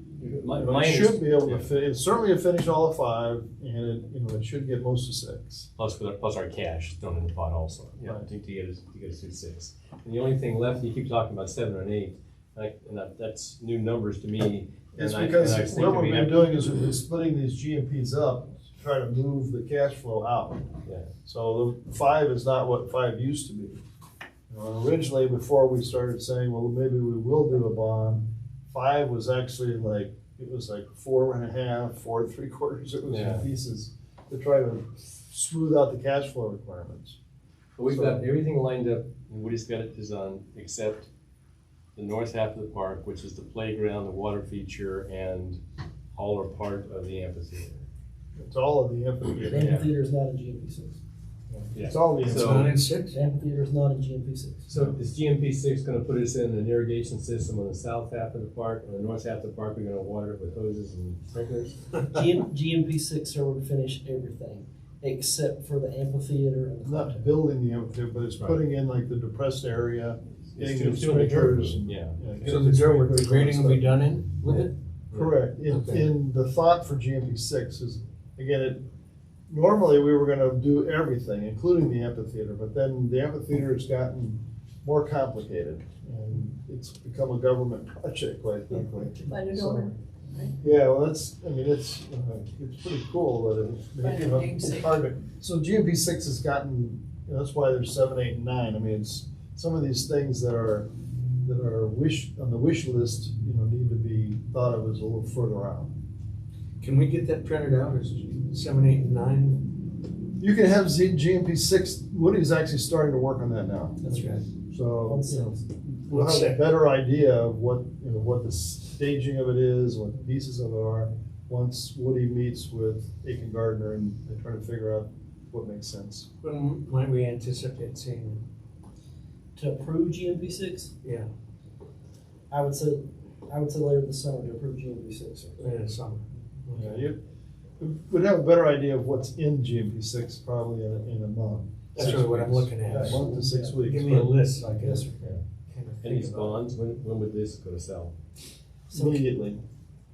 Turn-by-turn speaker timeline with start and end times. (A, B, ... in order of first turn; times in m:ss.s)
0:00.2-0:01.7 A
0:00.5-0:05.7 B
0:05.8-0:16.4 A
0:08.0-0:08.3 B
0:14.9-0:20.7 B
0:20.8-0:21.1 A
0:21.2-0:23.8 B
0:24.5-0:37.2 B
0:33.1-0:33.4 A
0:37.8-0:41.1 A
0:37.8-0:38.2 B
0:42.0-0:45.6 A
0:46.1-0:47.8 A
0:48.4-0:49.7 B
0:49.4-0:51.0 C
0:49.6-0:49.9 A
0:51.5-0:52.6 B
0:51.7-0:52.7 A
0:52.2-0:53.2 D
0:53.1-0:54.7 C
0:54.7-1:01.8 A
0:54.7-0:55.0 B
1:02.1-1:07.3 C
1:06.8-1:14.0 B
1:10.5-1:12.6 A
1:12.4-1:14.7 D
1:14.4-1:15.6 A
1:15.1-1:18.8 B
1:15.7-1:16.1 D
1:19.5-1:29.6 B
1:29.3-1:30.6 E
1:30.6-1:40.9 B
1:34.0-1:35.0 E
1:41.4-1:45.9 B
1:46.8-1:49.7 D
1:50.4-1:54.0 B
1:54.0-1:54.3 C
1:54.1-1:54.4 D
1:54.7-2:06.3 B
1:55.0-1:55.6 C
1:56.1-1:56.6 D
2:06.4-2:08.4 D
2:09.6-2:10.9 C
2:11.0-2:11.3 D
2:12.5-2:15.6 C
2:15.6-2:17.0 D
2:16.7-2:17.2 B
2:17.8-2:24.4 B
2:21.9-2:23.2 D
2:22.8-2:23.8 C
2:23.8-2:26.6 D
2:24.7-2:25.1 C
2:26.0-2:28.1 A
2:28.9-2:29.3 C
2:28.9-2:29.6 B